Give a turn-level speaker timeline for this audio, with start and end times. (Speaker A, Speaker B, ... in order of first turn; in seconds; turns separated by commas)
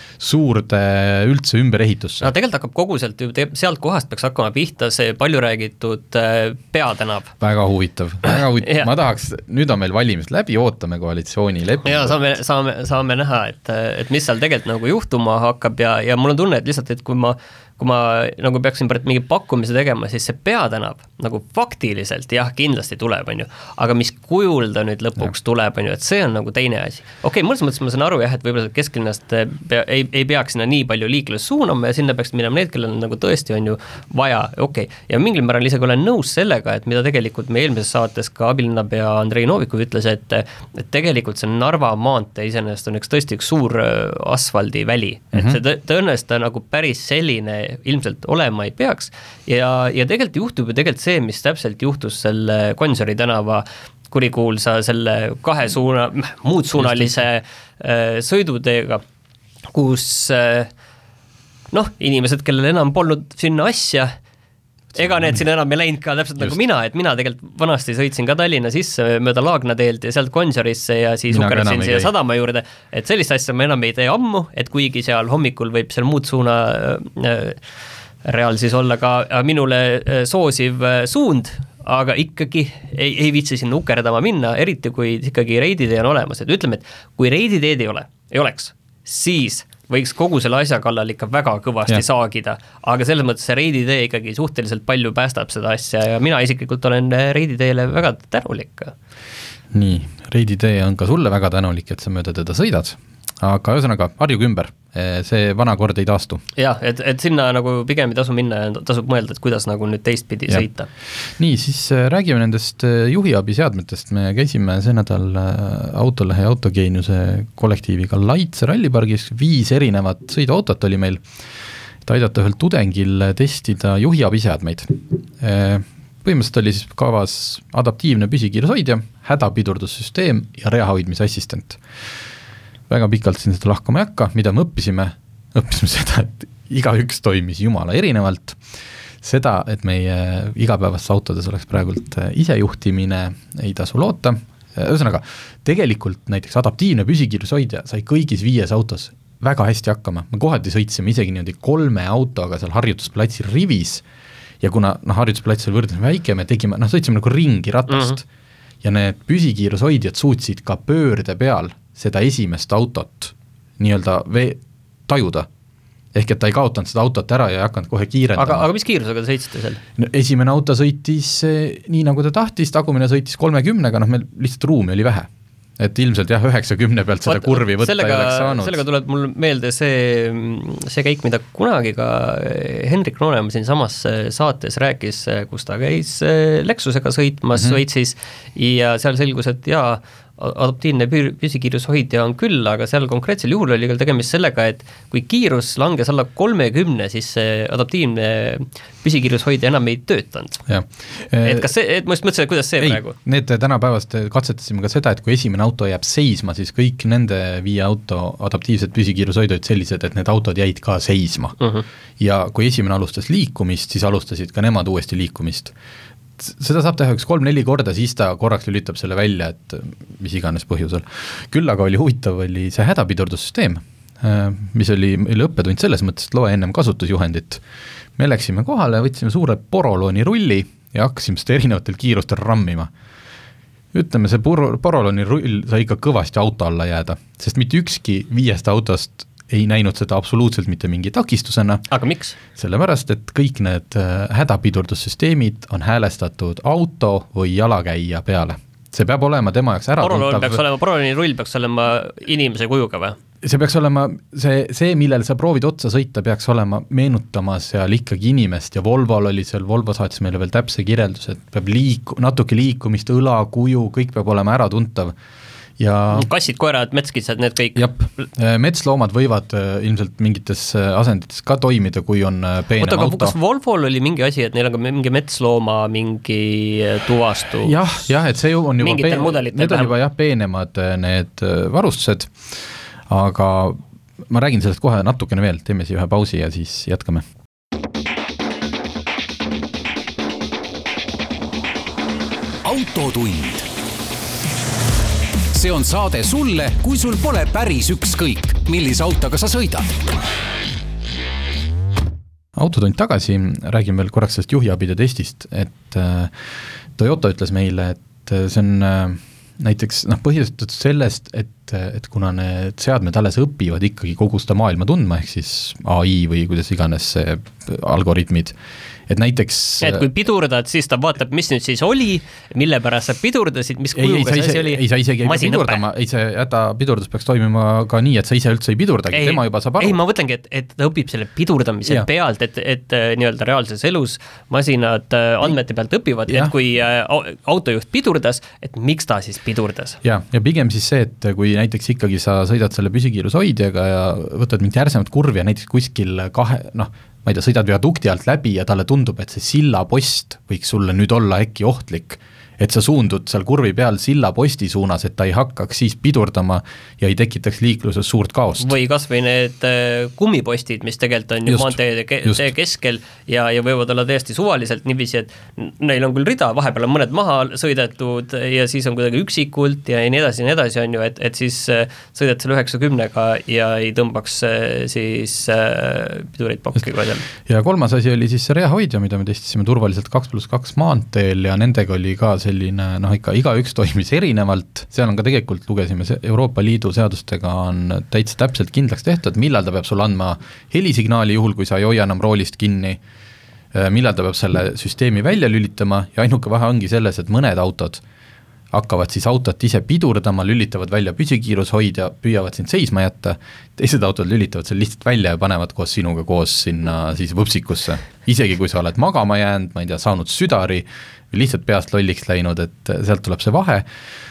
Speaker A: 0.2-2.3, Speaker B: 2.2-7.3, Speaker A: 7.4-12.3, Speaker B: 8.3-8.9, Speaker B: 11.8-59.0, Speaker A: 45.3-45.6, Speaker A: 56.8-57.2, Speaker B: 59.7-60.7, Speaker B: 61.7-64.1, Speaker A: 65.0-65.4, Speaker B: 65.0-77.6, Speaker A: 71.3-72.1, Speaker B: 78.2-98.9, Speaker A: 99.7-106.4, Speaker B: 106.6-110.9, Speaker A: 111.4-121.2, Speaker A: 122.0-131.8, Speaker A: 132.9-138.6, Speaker A: 139.2-154.0, Speaker A: 154.6-158.3, Speaker B: 157.9-158.2, Speaker A: 158.8-165.5, Speaker A: 166.1-168.7, Speaker B: 168.4-169.8, Speaker A: 170.0-178.8, Speaker B: 177.2-200.6, Speaker A: 200.7-201.7, Speaker B: 201.4-203.2, Speaker A: 202.8-211.6, Speaker B: 211.6-211.8, Speaker A: 212.2-215.7, Speaker A: 216.4-227.6, Speaker A: 228.2-232.9, Speaker A: 233.9-241.8, Speaker B: 241.9-242.4, Speaker A: 242.4-250.6, Speaker B: 250.0-253.2, Speaker A: 253.4-265.1, Speaker A: 265.8-266.3, Speaker B: 266.1-268.2, Speaker A: 267.8-273.4, Speaker B: 272.8-277.8, Speaker A: 277.6-287.3, Speaker B: 278.8-279.9, Speaker C: 292.6-293.7, Speaker C: 295.5-299.9, Speaker A: 302.6-318.6, Speaker A: 319.1-320.1, Speaker B: 319.8-325.8, Speaker A: 323.9-330.0, Speaker B: 329.1-340.0, Speaker A: 336.3-336.5, Speaker A: 340.0-358.8, Speaker B: 358.6-377.3, Speaker A: 361.5-362.5, Speaker A: 377.4-393.0, Speaker A: 393.7-398.0, Speaker A: 398.7-413.9